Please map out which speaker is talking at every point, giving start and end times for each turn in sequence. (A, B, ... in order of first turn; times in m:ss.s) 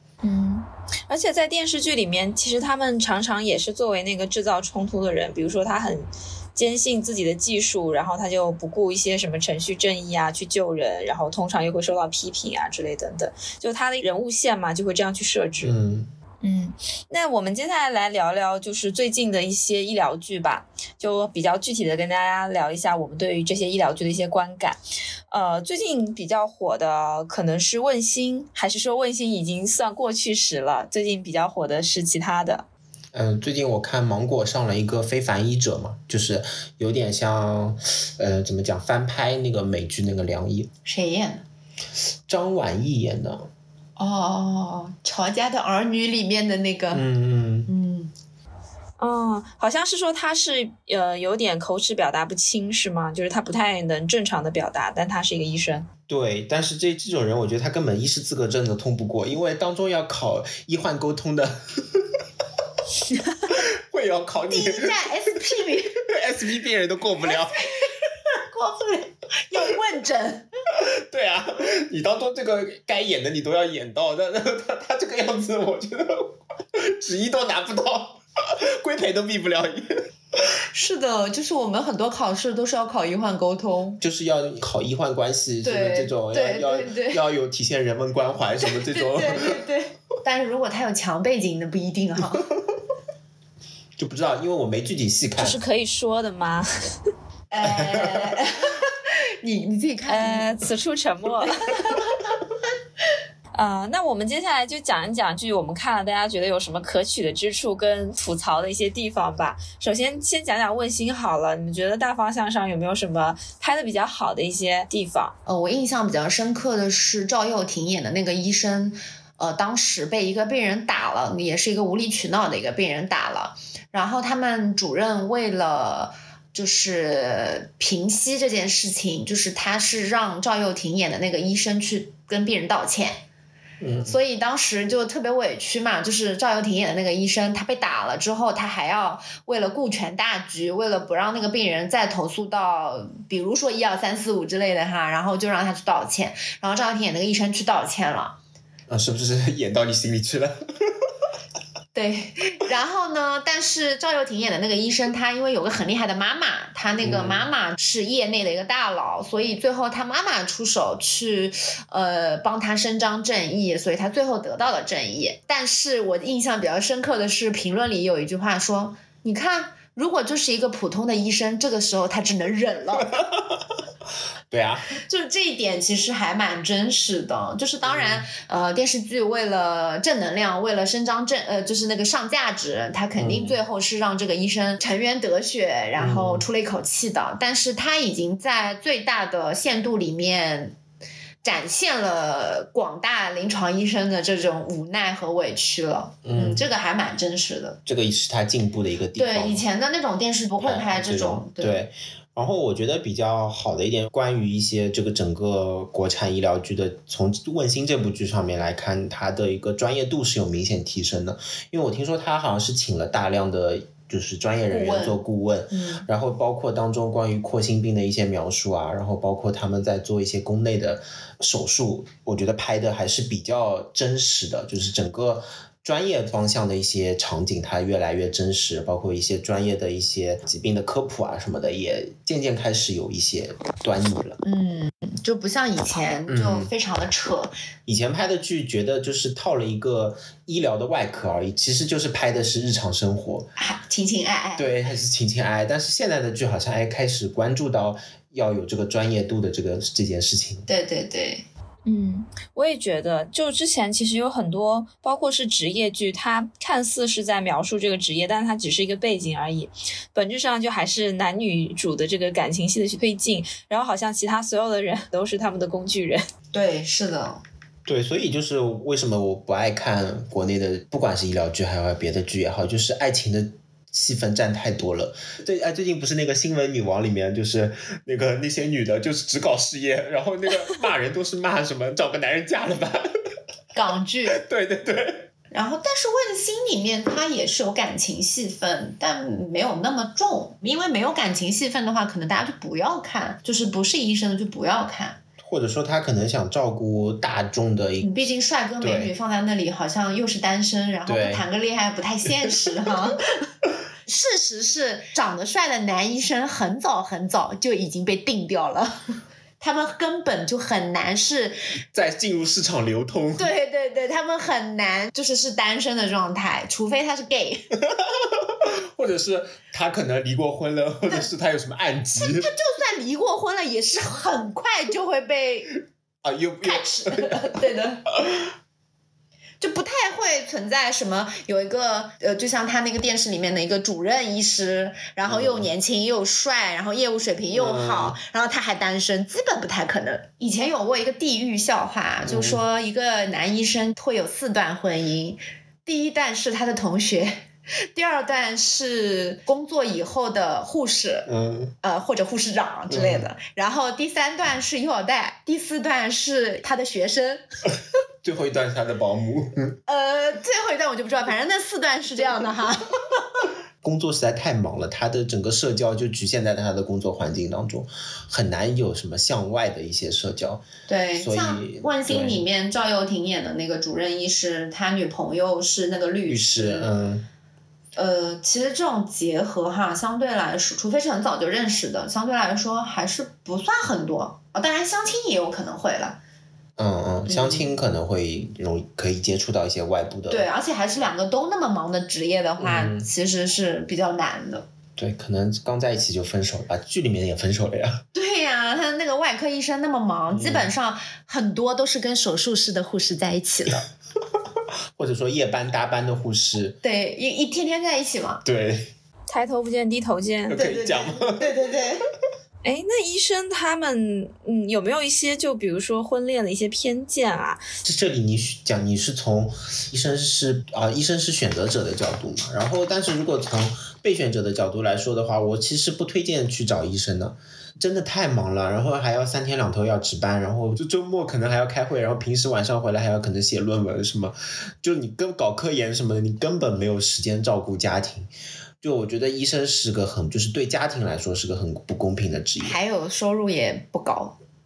0:00.2-0:15.8 A
0:15.6-0:16.1 B
0:16.4-0:24.8 A
0:25.3-0:32.7 A
0:33.1-0:40.7 B
0:40.8-0:41.4 C
0:42.3-0:43.5 B
0:44.0-0:47.0 C
0:46.9-0:47.7 B
0:47.7-0:48.1 C
0:49.0-0:55.9 A
0:56.1-1:02.1 B
1:03.5-1:05.0 B
1:04.4-1:06.0 C
1:06.0-1:07.6 B
1:07.3-1:10.5 C
1:10.7-1:20.1 B
1:20.7-1:24.0 C
1:24.0-1:29.6 B
1:25.6-1:27.2 C
1:28.6-1:32.5 C
1:34.0-1:35.6 B
1:35.4-1:37.0 A
1:37.5-1:40.6 C
1:37.6-1:38.4 B
1:40.1-1:41.7 A
1:41.8-1:42.2 C
1:43.5-1:55.3 A
1:55.5-2:13.2 C
2:13.8-2:14.2 B
2:14.0-2:28.4 C
2:28.9-2:30.6 B
2:31.9-2:53.2 C
2:37.0-2:37.5 B
2:53.2-2:53.6 B
2:54.5-2:54.9 B
2:55.0-3:10.8 C
2:57.8-2:58.3 B
3:03.2-3:03.6 B
3:06.0-3:06.5 B
3:11.4-3:17.8 C
3:16.2-3:16.7 B
3:17.9-3:19.6 B
3:19.2-3:21.8 C
3:20.6-3:54.4 B
3:34.7-3:35.2 C
3:35.7-3:36.1 C
3:54.4-3:57.5 C
3:56.3-3:56.7 B
3:57.9-4:03.5 B
4:03.6-4:04.7 C
4:04.6-4:10.7 B
4:10.7-4:11.5 C
4:11.9-4:26.2 A
4:26.5-4:27.4 C
4:27.9-4:43.1 B
4:43.8-4:44.4 C
4:44.3-4:45.3 B
4:45.5-4:55.2 C
4:55.4-4:58.3 B
4:58.0-5:03.4 C
4:58.8-4:59.1 B
5:01.1-5:01.5 B
5:04.1-5:09.0 C
5:09.6-5:11.6 C
5:11.9-5:13.5 B
5:13.4-5:17.6 C
5:17.9-5:22.5 B
5:22.2-5:25.8 C
5:26.2-5:27.6 B
5:26.6-5:28.1 C
5:29.6-5:47.4 C
5:35.2-5:35.7 B
5:37.5-5:38.2 B
5:42.3-5:42.6 B
5:47.9-5:51.3 C
5:51.3-5:51.7 B
5:51.8-5:57.4 C
5:52.9-5:53.3 B
5:58.2-5:59.8 B
5:59.9-6:02.9 C
6:03.8-6:10.6 B
6:10.9-6:16.9 C
6:11.2-6:12.4 B
6:16.3-6:17.3 B
6:18.0-6:26.2 C
6:26.8-6:30.5 B
6:27.3-6:27.7 C
6:30.3-6:34.7 C
6:32.6-6:33.1 B
6:35.0-6:38.0 B
6:38.1-6:43.9 C
6:40.3-6:40.7 B
6:45.0-6:46.8 B
6:46.8-6:48.4 C
6:48.4-6:48.9 B
6:49.3-6:50.7 A
6:50.5-6:51.5 B
6:50.5-6:52.1 C
6:52.6-6:57.6 A
6:57.8-7:18.3 B
7:18.8-7:22.8 B
7:22.6-7:24.4 C